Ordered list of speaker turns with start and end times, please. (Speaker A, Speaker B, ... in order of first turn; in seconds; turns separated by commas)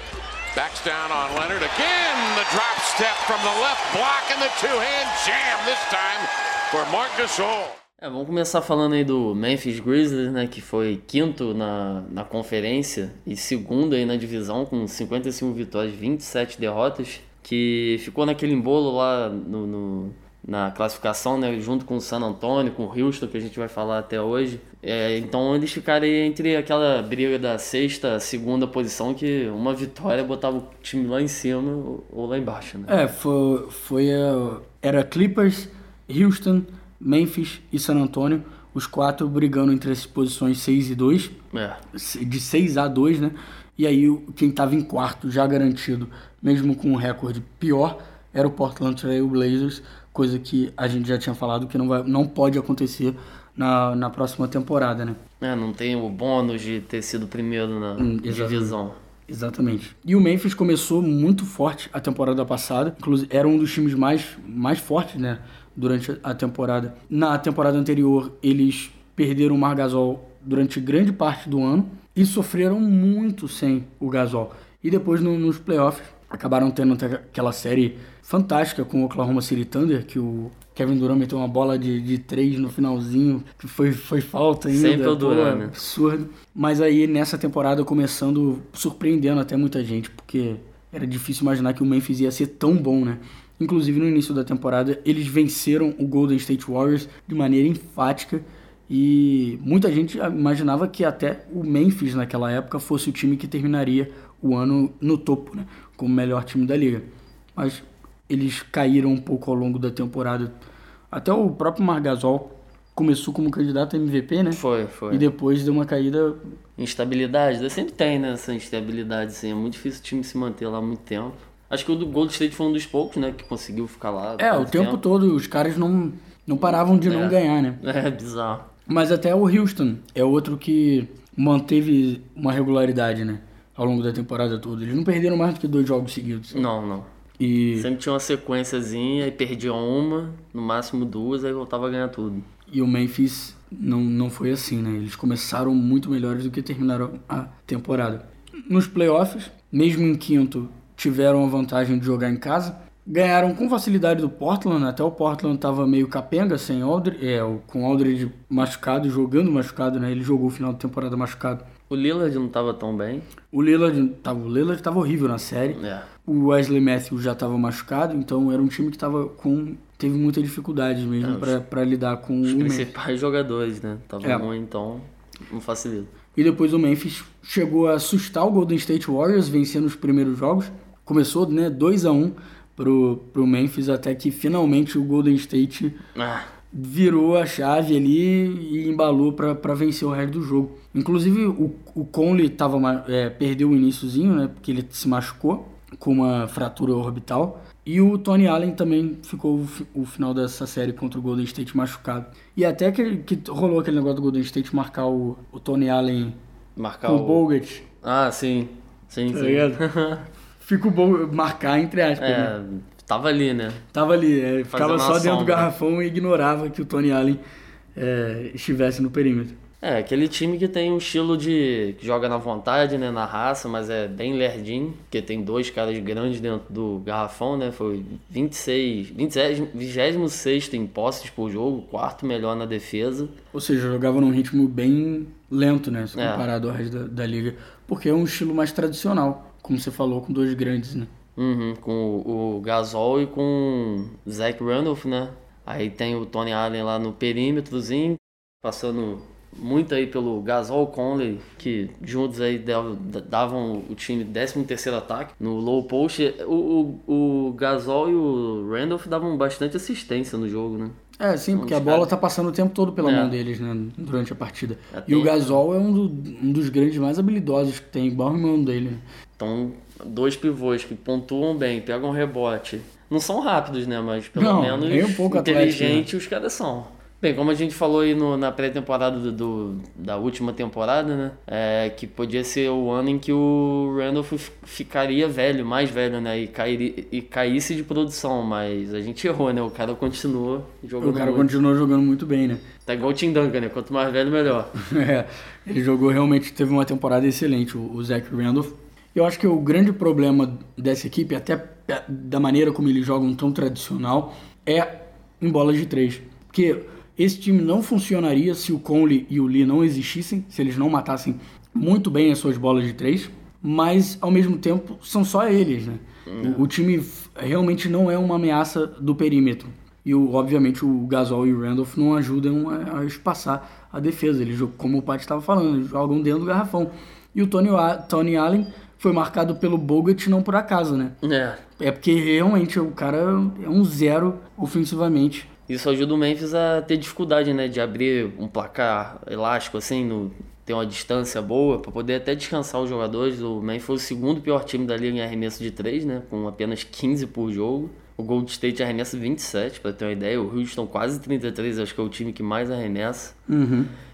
Speaker A: 0.5-7.8, Speaker B: 8.0-33.0, Speaker C: 32.9-41.4, Speaker B: 41.5-41.8, Speaker C: 41.9-55.2, Speaker B: 55.4-59.0, Speaker C: 58.0-58.8, Speaker C: 59.3-110.5, Speaker B: 84.7-85.8, Speaker C: 111.1-116.4, Speaker B: 114.5-115.2, Speaker B: 116.8-125.0, Speaker C: 124.4-127.8, Speaker B: 126.6-128.7, Speaker C: 128.9-136.7, Speaker B: 136.5-137.1, Speaker C: 137.4-137.9, Speaker B: 137.8-142.4, Speaker C: 142.7-161.6, Speaker B: 161.9-163.2, Speaker C: 163.5-172.9, Speaker B: 165.7-166.1, Speaker B: 171.2-171.6, Speaker B: 172.4-176.1, Speaker C: 176.3-186.0, Speaker B: 186.2-186.5, Speaker C: 186.7-206.4, Speaker B: 206.8-207.4, Speaker C: 207.0-207.8, Speaker B: 208.0-210.3, Speaker C: 209.3-209.8, Speaker C: 210.6-212.5, Speaker B: 212.2-213.8, Speaker C: 213.9-217.4, Speaker B: 214.7-215.7, Speaker C: 217.9-219.6, Speaker B: 219.8-233.3, Speaker C: 233.5-241.1, Speaker B: 236.2-236.5, Speaker B: 241.4-260.9, Speaker C: 261.2-269.0, Speaker B: 261.5-262.1, Speaker B: 263.0-263.3, Speaker B: 264.9-265.5, Speaker B: 269.4-291.5, Speaker C: 274.3-276.1, Speaker C: 291.0-292.6, Speaker B: 292.8-294.7, Speaker C: 294.8-331.1, Speaker B: 316.3-316.7, Speaker B: 331.2-331.6, Speaker C: 331.8-335.5, Speaker B: 335.7-353.3, Speaker C: 353.5-353.9